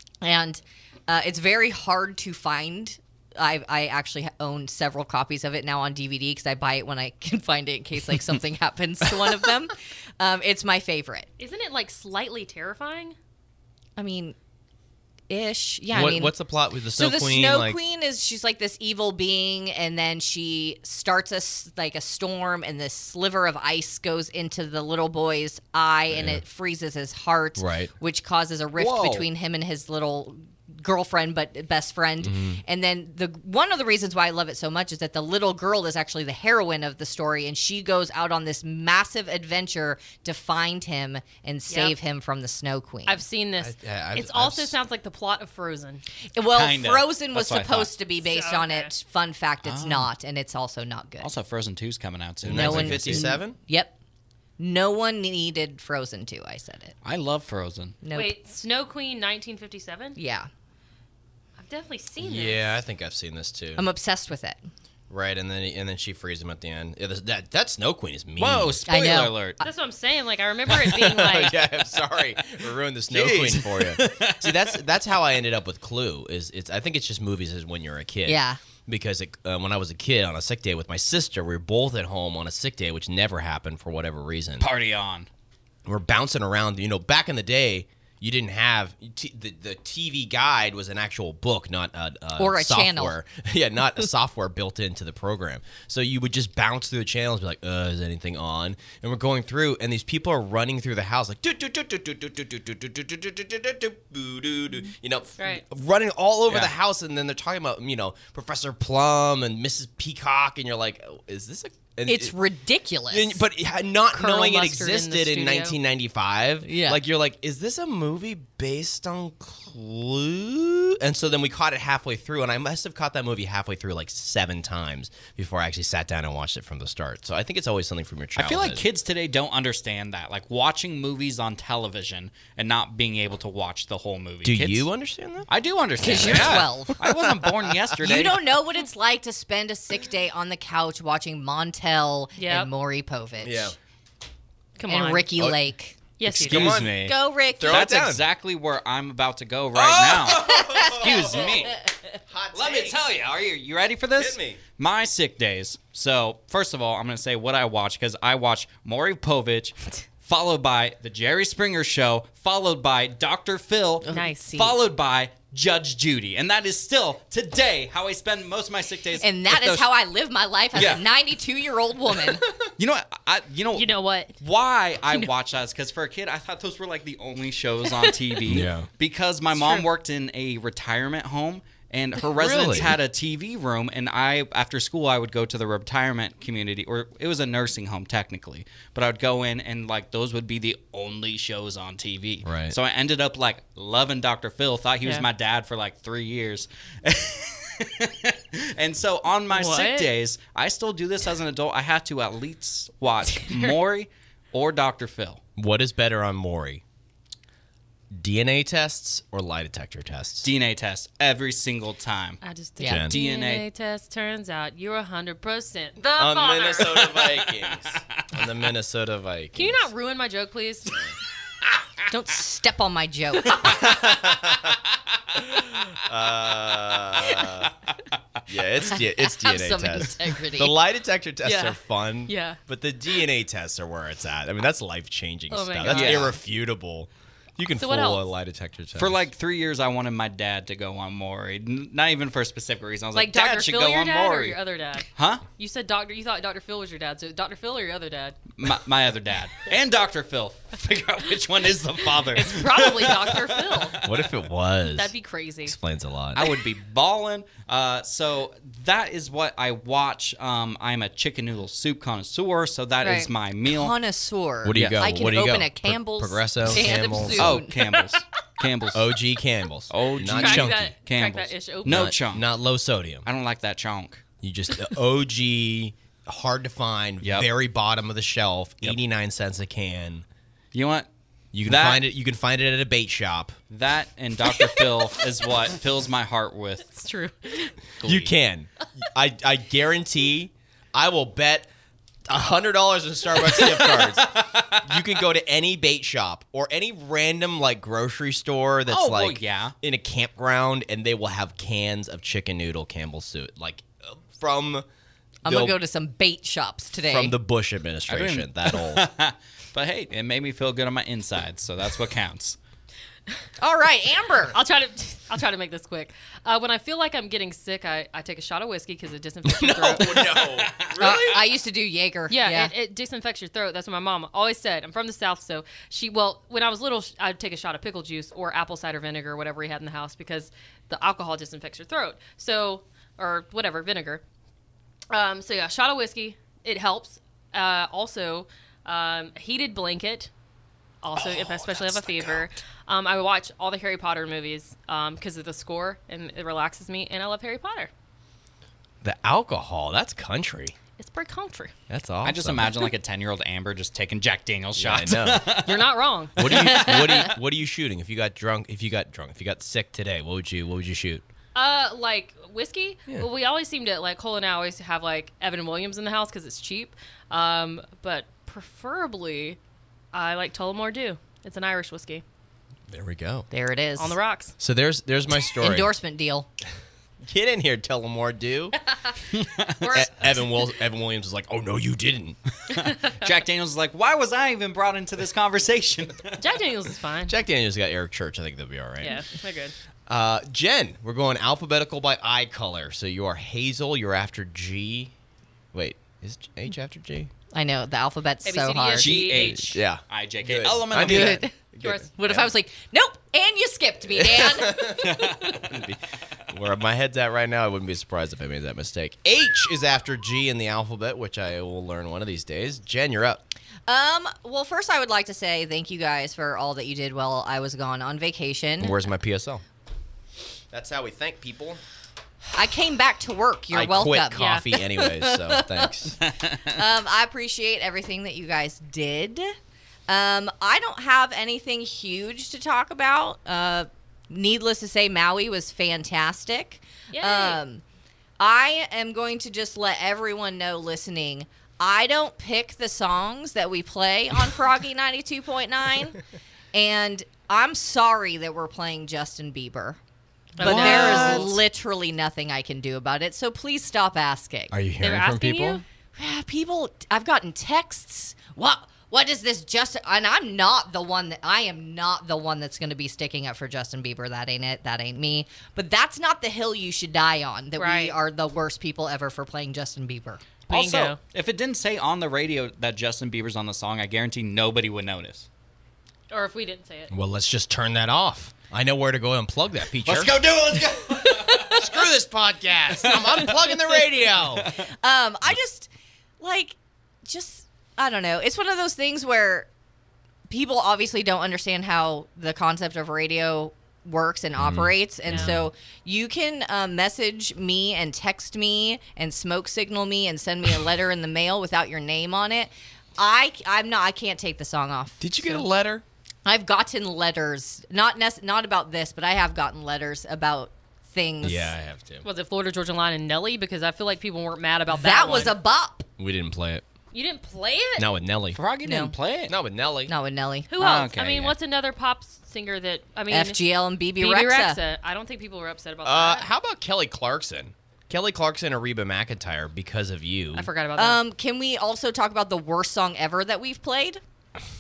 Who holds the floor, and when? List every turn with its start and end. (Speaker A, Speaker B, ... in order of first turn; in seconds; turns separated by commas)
Speaker A: 0.2-11.3, Speaker B: 11.4-13.2, Speaker A: 14.0-14.3, Speaker A: 15.3-16.3, Speaker C: 15.9-17.8, Speaker A: 16.9-43.2, Speaker C: 26.1-26.4, Speaker C: 27.6-27.9, Speaker D: 28.8-29.3, Speaker C: 32.2-32.6, Speaker B: 41.7-42.0, Speaker B: 43.0-46.0, Speaker C: 43.6-44.8, Speaker A: 46.3-51.3, Speaker D: 46.5-47.9, Speaker B: 48.2-48.9, Speaker D: 49.6-50.1, Speaker D: 51.2-53.3, Speaker C: 52.4-53.6, Speaker A: 52.5-54.0, Speaker A: 54.6-56.9, Speaker D: 57.0-58.0, Speaker A: 58.0-58.3, Speaker B: 58.1-60.2, Speaker A: 60.1-60.5, Speaker B: 61.6-62.7, Speaker C: 62.2-63.8, Speaker A: 63.8-64.6, Speaker C: 65.1-68.8, Speaker D: 68.4-69.6, Speaker A: 68.9-69.6, Speaker B: 69.6-71.6, Speaker C: 70.7-84.7, Speaker D: 73.1-74.8, Speaker A: 78.2-78.6, Speaker D: 84.6-85.3, Speaker C: 85.8-112.3, Speaker A: 92.4-93.1, Speaker A: 112.0-113.4, Speaker C: 113.1-128.8, Speaker B: 114.1-115.8, Speaker A: 116.6-117.0, Speaker D: 128.3-134.9, Speaker C: 134.4-135.5, Speaker D: 135.5-138.4, Speaker A: 136.0-137.0, Speaker C: 136.0-137.7, Speaker A: 138.0-143.7, Speaker B: 142.4-142.7, Speaker C: 143.4-143.8, Speaker B: 144.8-145.3, Speaker A: 144.9-146.0, Speaker B: 146.2-146.8, Speaker C: 146.3-148.2, Speaker D: 146.3-151.8, Speaker A: 146.9-147.9, Speaker C: 149.7-151.8, Speaker A: 150.7-151.3, Speaker C: 152.3-153.0, Speaker D: 152.5-169.9, Speaker C: 154.2-154.6, Speaker A: 164.0-164.7, Speaker B: 164.1-164.7, Speaker A: 169.2-172.4, Speaker D: 170.7-171.0, Speaker D: 172.6-205.4, Speaker B: 173.7-174.3, Speaker C: 178.4-178.9, Speaker C: 182.3-183.0, Speaker C: 192.4-192.8, Speaker B: 199.5-200.1, Speaker B: 203.4-203.8, Speaker C: 205.6-206.8, Speaker C: 208.1-210.5, Speaker D: 210.4-212.4, Speaker B: 212.4-217.2, Speaker A: 212.8-213.1, Speaker C: 212.8-213.1, Speaker D: 213.0-213.6, Speaker C: 216.1-219.9, Speaker D: 217.1-218.2, Speaker B: 219.5-221.0, Speaker A: 222.1-223.8, Speaker C: 223.6-224.8, Speaker C: 225.3-227.7, Speaker C: 228.4-239.2, Speaker A: 229.0-230.7, Speaker B: 231.4-232.6, Speaker B: 235.5-236.4, Speaker D: 235.8-236.3, Speaker B: 237.7-238.2, Speaker D: 238.9-244.6, Speaker B: 243.1-248.4, Speaker D: 245.1-245.4, Speaker D: 248.6-254.3, Speaker B: 252.3-254.0, Speaker C: 254.0-255.1, Speaker B: 254.9-255.8, Speaker C: 255.6-256.5, Speaker D: 256.3-263.9, Speaker B: 263.0-263.3, Speaker A: 263.7-268.1, Speaker C: 264.6-267.6, Speaker D: 264.7-265.0, Speaker B: 266.7-267.5, Speaker D: 267.4-269.1, Speaker C: 268.9-270.9, Speaker D: 269.9-272.5, Speaker B: 270.2-272.2, Speaker C: 271.8-273.2, Speaker D: 273.2-274.2, Speaker C: 274.4-280.2, Speaker D: 277.2-277.5, Speaker D: 280.7-281.1, Speaker C: 281.5-283.6, Speaker D: 281.6-282.0, Speaker D: 283.7-287.0, Speaker B: 286.9-287.8, Speaker D: 288.0-288.3, Speaker C: 288.0-291.7, Speaker C: 292.3-304.9, Speaker D: 293.5-295.0, Speaker D: 298.9-299.7, Speaker C: 305.4-305.8, Speaker A: 305.4-307.4, Speaker C: 307.1-309.1, Speaker D: 308.1-312.6, Speaker A: 313.6-314.6, Speaker B: 314.5-320.4, Speaker C: 319.4-321.4, Speaker D: 320.4-321.2, Speaker A: 321.0-322.7, Speaker B: 322.3-334.2, Speaker B: 335.1-340.3, Speaker B: 341.0-347.9, Speaker C: 341.1-342.4, Speaker C: 349.0-350.7, Speaker B: 351.0-351.7, Speaker C: 351.9-352.9, Speaker D: 352.2-357.3, Speaker C: 354.8-355.6, Speaker B: 355.6-357.1, Speaker C: 356.4-361.2, Speaker B: 361.5-369.6, Speaker B: 370.1-372.2, Speaker C: 372.9-373.5, Speaker A: 373.5-374.2, Speaker B: 374.0-374.6, Speaker C: 374.6-375.9, Speaker A: 375.6-376.5, Speaker C: 377.2-378.8, Speaker D: 379.3-379.9, Speaker B: 379.8-380.3, Speaker C: 379.8-382.4, Speaker D: 382.7-386.4, Speaker B: 382.7-383.3, Speaker B: 386.4-387.4, Speaker C: 387.3-389.2, Speaker B: 389.0-389.7, Speaker C: 390.1-395.1, Speaker C: 395.7-397.3, Speaker A: 397.5-399.2, Speaker B: 398.4-399.8, Speaker D: 399.0-401.4, Speaker C: 399.4-402.5, Speaker A: 401.0-401.6, Speaker B: 401.8-402.1, Speaker A: 402.1-405.4, Speaker C: 404.1-413.4, Speaker D: 405.0-405.6, Speaker A: 413.9-419.0, Speaker C: 418.8-419.6, Speaker C: 420.7-421.8, Speaker A: 422.5-429.5, Speaker C: 423.7-426.2, Speaker B: 424.3-424.7, Speaker D: 426.2-426.7, Speaker A: 430.1-437.8, Speaker B: 437.1-437.6, Speaker A: 438.4-446.2, Speaker A: 446.7-450.0, Speaker B: 450.6-451.6, Speaker C: 450.6-451.6, Speaker A: 450.6-454.7, Speaker C: 454.7-455.8, Speaker B: 455.0-455.8, Speaker A: 456.1-470.4, Speaker B: 467.8-468.1, Speaker B: 470.7-471.2, Speaker D: 470.7-475.5, Speaker B: 476.3-477.1, Speaker C: 477.1-480.4, Speaker D: 480.0-481.9, Speaker C: 481.5-484.7, Speaker D: 483.1-483.7, Speaker A: 484.7-485.9, Speaker A: 486.4-489.7, Speaker A: 490.5-505.6, Speaker C: 494.6-495.7, Speaker B: 495.3-495.5, Speaker C: 505.2-506.0, Speaker A: 506.4-511.7, Speaker C: 511.4-512.2, Speaker B: 512.2-515.5, Speaker A: 514.9-516.0, Speaker C: 516.2-516.8, Speaker B: 517.1-518.1, Speaker C: 518.0-518.6, Speaker D: 518.5-519.5, Speaker A: 518.8-519.1, Speaker C: 519.5-520.1, Speaker A: 520.1-520.7, Speaker B: 520.7-523.6, Speaker D: 520.8-521.5, Speaker A: 523.3-524.8, Speaker B: 524.2-526.4, Speaker C: 526.0-530.7, Speaker B: 530.5-531.2, Speaker A: 531.0-534.2